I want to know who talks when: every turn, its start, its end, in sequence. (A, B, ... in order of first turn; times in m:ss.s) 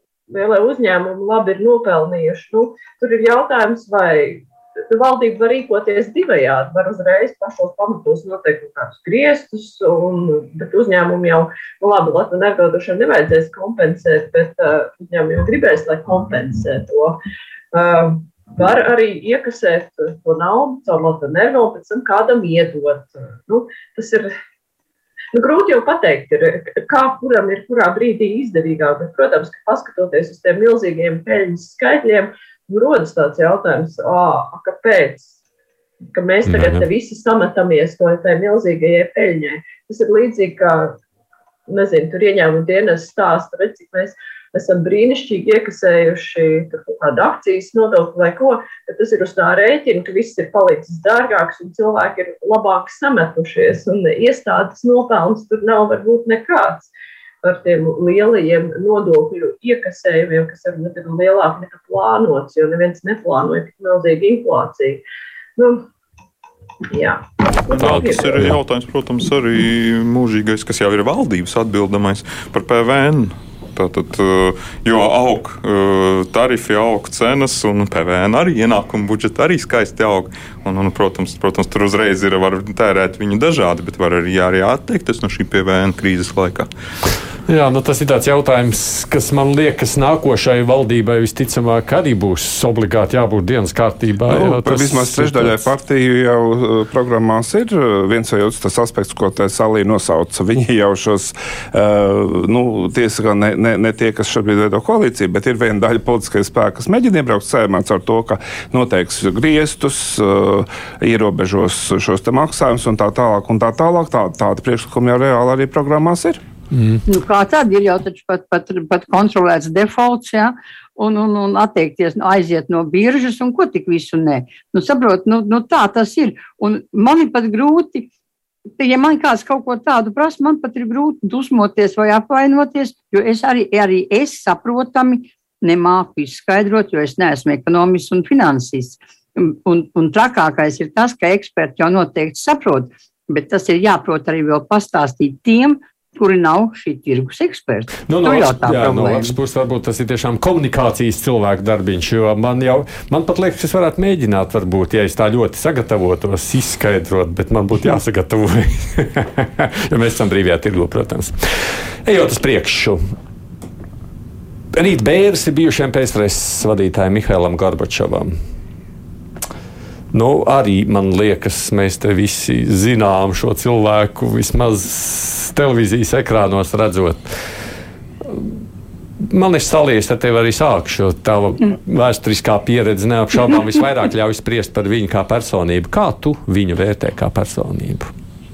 0:00.3-0:17.2 A
0:17.7-0:24.3 A
0:25.3-0:35.3 A
0:36.1-0:41.0 A
0:36.4-0:36.9 B
0:41.7-0:56.9 A
0:57.4-1:05.0 A
1:05.6-1:05.8 A
1:06.9-1:08.5 A
1:07.7-1:26.7 C
1:27.5-1:35.7 B
1:34.3-1:56.4 D
1:56.7-1:57.0 B
1:57.0-2:08.1 E
2:08.8-2:29.4 E
2:28.1-2:43.0 B
2:44.7-2:48.4 B
2:50.1-2:57.4 B
2:58.2-2:58.6 B
2:59.2-3:08.1 B